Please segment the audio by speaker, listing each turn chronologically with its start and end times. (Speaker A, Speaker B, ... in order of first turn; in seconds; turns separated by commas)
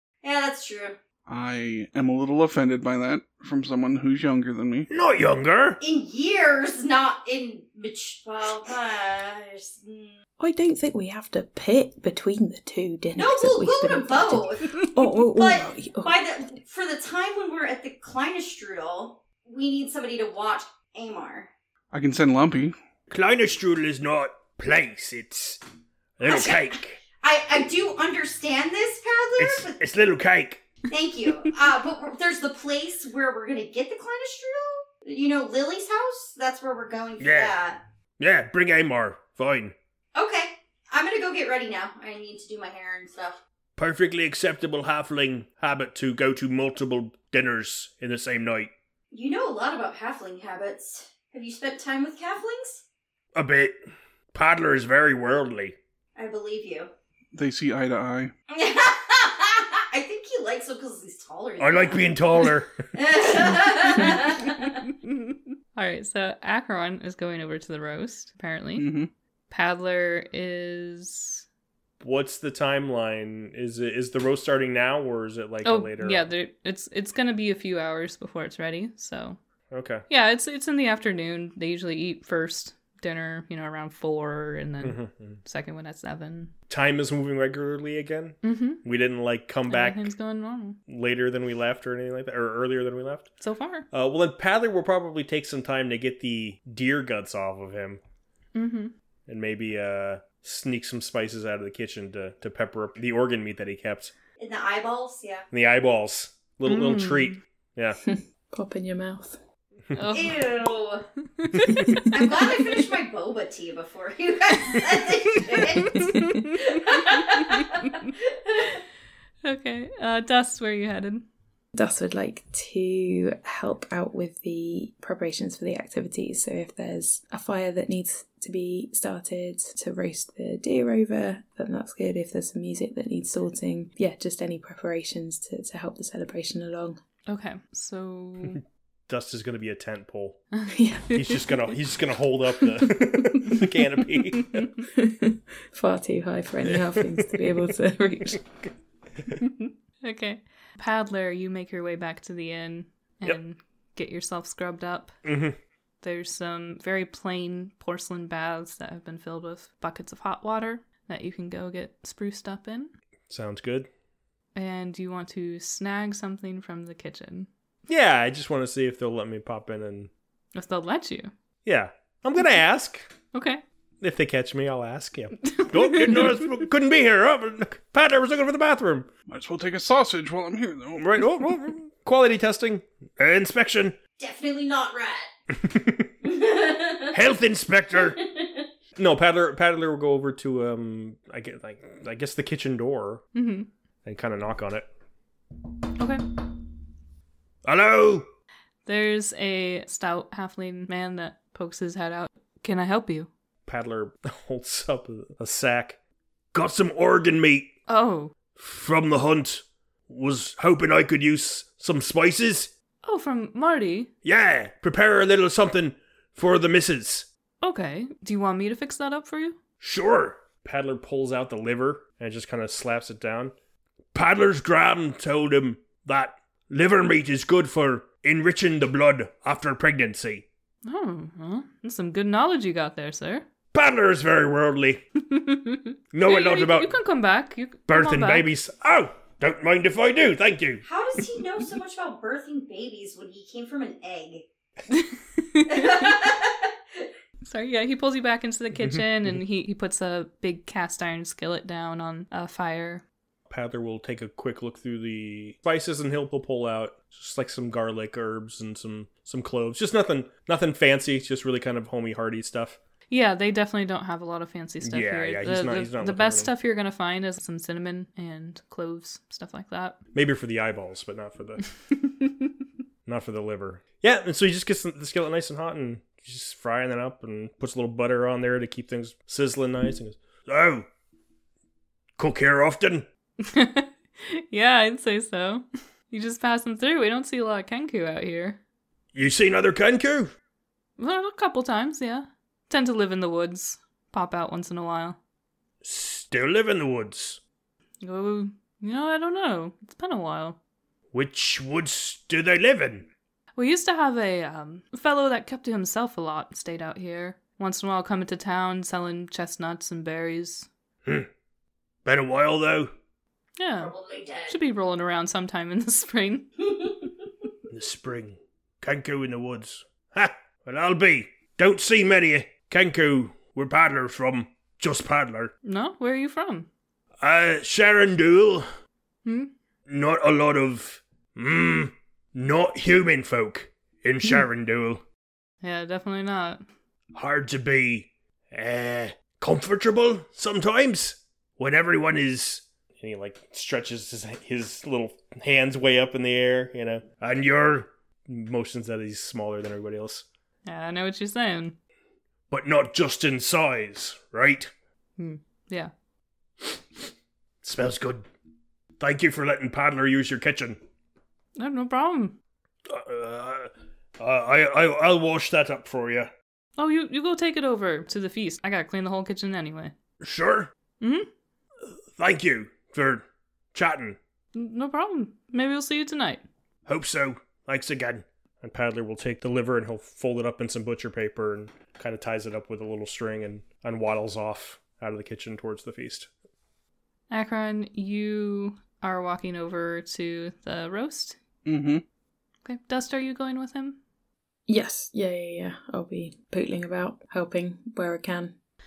Speaker A: 0.2-1.0, Speaker B: 1.3-4.9, Speaker C: 4.9-5.8, Speaker A: 5.8-10.2, Speaker D: 10.4-16.1, Speaker A: 13.2-21.5, Speaker B: 21.9-22.7, Speaker C: 23.1-25.6, Speaker C: 26.2-27.0, Speaker A: 26.2-29.8, Speaker C: 29.4-30.6, Speaker A: 30.9-37.8, Speaker C: 37.2-37.6, Speaker C: 38.2-39.7, Speaker A: 40.1-43.4, Speaker C: 43.8-48.7, Speaker A: 49.1-52.8, Speaker C: 53.3-53.7, Speaker C: 54.3-55.8, Speaker A: 56.1-56.9, Speaker B: 57.3-58.3, Speaker A: 58.5-64.8, Speaker C: 61.6-62.7, Speaker E: 64.9-68.9, Speaker B: 68.8-69.1, Speaker E: 69.5-71.4, Speaker C: 72.0-76.3, Speaker E: 75.6-79.4, Speaker C: 79.7-80.0, Speaker E: 80.1-86.5, Speaker C: 84.8-85.4, Speaker C: 86.7-90.1, Speaker E: 88.4-88.8, Speaker E: 89.7-90.8, Speaker C: 90.9-93.3, Speaker E: 93.4-93.9, Speaker C: 93.9-98.0, Speaker E: 98.5-98.9, Speaker C: 99.3-104.1, Speaker A: 104.4-105.5, Speaker C: 105.5-108.0, Speaker E: 106.7-107.4, Speaker D: 108.0-109.4, Speaker E: 109.9-110.5, Speaker A: 110.1-111.0, Speaker E: 111.4-112.1, Speaker A: 112.1-118.7, Speaker E: 115.6-117.9, Speaker D: 116.0-116.3, Speaker E: 119.4-121.2, Speaker D: 121.7-137.0, Speaker E: 137.3-138.6, Speaker C: 139.1-140.4, Speaker E: 140.6-141.5, Speaker D: 140.7-141.1, Speaker C: 141.1-144.7, Speaker D: 142.8-143.6, Speaker E: 144.4-144.7, Speaker D: 144.8-148.4, Speaker E: 149.4-155.2, Speaker C: 155.2-155.6, Speaker E: 156.0-162.9, Speaker C: 163.3-163.9, Speaker E: 164.5-167.5, Speaker C: 167.9-170.1, Speaker E: 170.5-171.3, Speaker C: 171.6-173.1, Speaker E: 173.3-173.6, Speaker C: 174.0-179.1, Speaker E: 175.5-176.3, Speaker B: 179.3-181.4, Speaker C: 181.0-184.0, Speaker A: 184.2-185.3, Speaker C: 185.5-186.1, Speaker A: 186.2-187.1, Speaker C: 187.1-188.3, Speaker A: 188.2-188.6, Speaker C: 188.9-193.2, Speaker E: 193.3-193.7, Speaker C: 194.0-194.8, Speaker C: 197.6-198.3, Speaker E: 198.8-203.3, Speaker C: 203.7-206.0, Speaker C: 206.5-207.7, Speaker E: 207.9-208.3, Speaker C: 208.6-212.7, Speaker E: 213.0-214.1, Speaker C: 214.2-217.3, Speaker E: 217.6-219.6, Speaker C: 219.8-223.5, Speaker C: 224.1-230.4, Speaker E: 230.8-233.4, Speaker C: 233.7-235.0, Speaker E: 235.3-238.5, Speaker C: 236.1-236.9, Speaker C: 237.9-240.8, Speaker A: 240.8-244.4, Speaker E: 244.9-246.2, Speaker A: 245.7-247.0, Speaker E: 247.4-253.0, Speaker C: 253.5-262.8, Speaker E: 263.1-270.0, Speaker C: 264.8-266.5, Speaker C: 270.1-271.7, Speaker C: 273.1-280.9, Speaker C: 282.2-283.1, Speaker E: 283.4-288.6, Speaker C: 289.1-290.3, Speaker E: 291.0-295.2, Speaker C: 295.8-297.4, Speaker E: 298.0-300.6, Speaker C: 301.1-303.1, Speaker E: 303.6-310.7, Speaker C: 312.0-312.9, Speaker E: 313.6-313.9, Speaker A: 313.8-314.6, Speaker E: 314.5-316.6, Speaker C: 317.7-325.5, Speaker E: 325.6-326.7, Speaker C: 327.2-328.7, Speaker E: 329.2-329.5, Speaker C: 329.9-335.0, Speaker E: 335.6-336.6, Speaker C: 337.1-350.2, Speaker E: 350.6-351.8, Speaker C: 352.5-354.7, Speaker E: 355.2-355.9, Speaker C: 357.6-358.3, Speaker C: 359.0-360.8, Speaker E: 361.6-362.4, Speaker C: 362.9-366.3, Speaker E: 366.8-369.9, Speaker C: 370.2-370.7, Speaker E: 371.0-371.3, Speaker C: 372.1-374.2, Speaker E: 374.5-376.4, Speaker C: 376.9-386.3, Speaker E: 387.3-391.4, Speaker B: 391.6-392.0, Speaker E: 392.6-394.0, Speaker D: 394.7-398.5